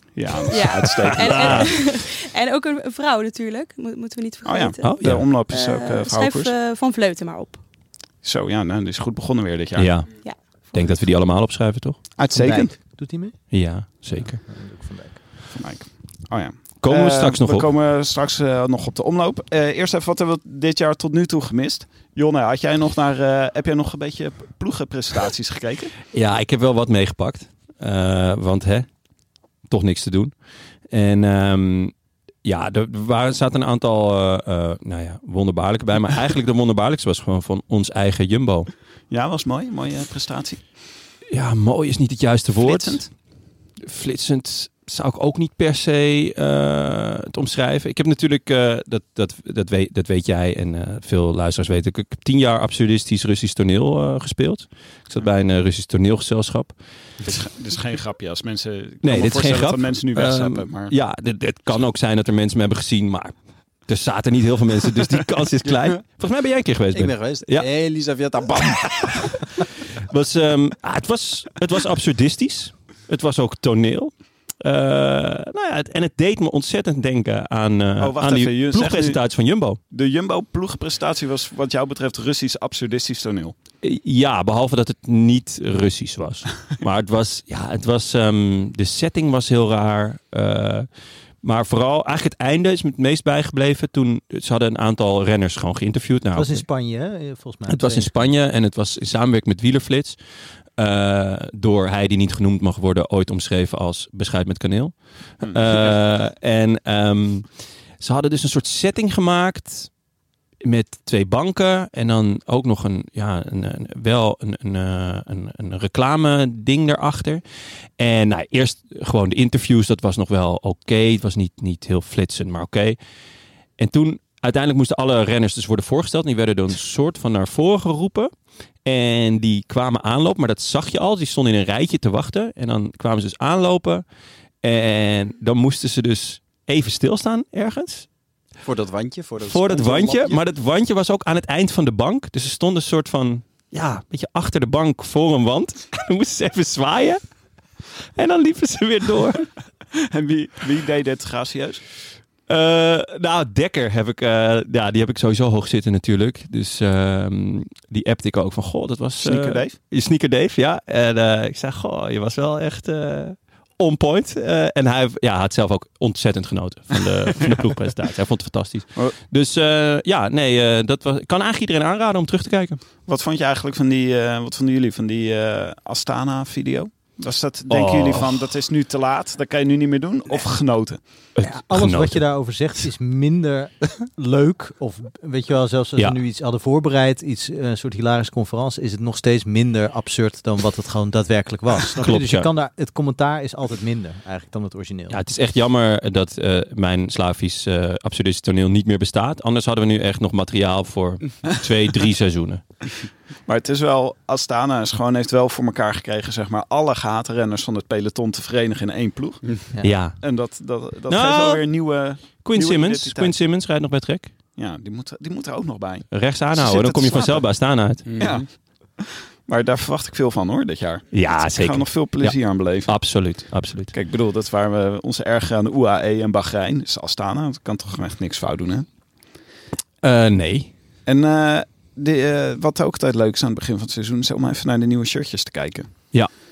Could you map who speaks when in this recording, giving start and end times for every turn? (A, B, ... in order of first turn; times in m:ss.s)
0:00.2-0:01.7 A
0:00.5-0:07.6 B
0:01.2-0:01.7 C
0:04.5-0:06.5 A
0:04.8-0:05.4 C
0:08.2-0:10.1 A
0:09.8-0:10.2 C
0:10.7-0:12.0 C
0:12.2-0:12.7 A
0:12.3-0:13.4 D
0:13.5-0:14.4 C
0:14.2-0:15.2 D
0:15.6-0:25.9 A
0:16.8-0:17.7 C
0:26.1-0:28.9 C
0:29.7-0:30.3 C
0:30.9-0:31.9 C
0:32.4-0:38.7 C
0:39.1-0:40.6 A
0:41.3-0:43.1 C
0:42.6-0:43.1 A
0:43.8-0:56.7 C
0:57.2-1:00.9 A
0:59.0-1:03.3 C
1:03.9-1:07.7 C
1:06.9-1:09.2 E
1:09.5-1:19.8 C
1:18.0-1:19.2 A
1:19.9-1:23.6 A
1:23.8-1:30.9 C
1:31.4-1:36.6 C
1:36.3-1:38.3 D
1:37.7-1:40.2 C
1:40.8-1:47.5 C
1:45.4-1:45.9 A
1:48.0-1:49.9 C
1:50.6-1:57.4 C
1:58.0-2:03.0 C
2:03.8-2:08.3 C
2:08.8-2:14.0 C
2:14.6-2:18.1 C
2:18.6-2:20.4 E
2:19.5-2:27.2 C
2:28.2-2:29.5 C
2:30.1-2:31.8 A
2:32.5-2:52.8 C
2:39.2-2:39.8 A
2:53.1-3:01.0 A
2:57.7-2:58.4 C
3:01.4-3:02.2 C
3:01.4-3:15.2 D
3:12.0-3:12.5 C
3:15.1-3:22.6 C
3:23.5-3:29.7 A
3:29.8-3:30.2 C
3:30.2-3:33.4 A
3:31.1-3:31.7 C
3:32.2-3:34.3 C
3:34.6-3:37.5 A
3:36.1-3:38.2 C
3:38.1-3:38.5 E
3:38.2-3:42.9 A
3:41.1-3:43.9 C
3:43.9-3:48.9 A
3:50.0-3:50.7 C
3:51.1-3:56.2 A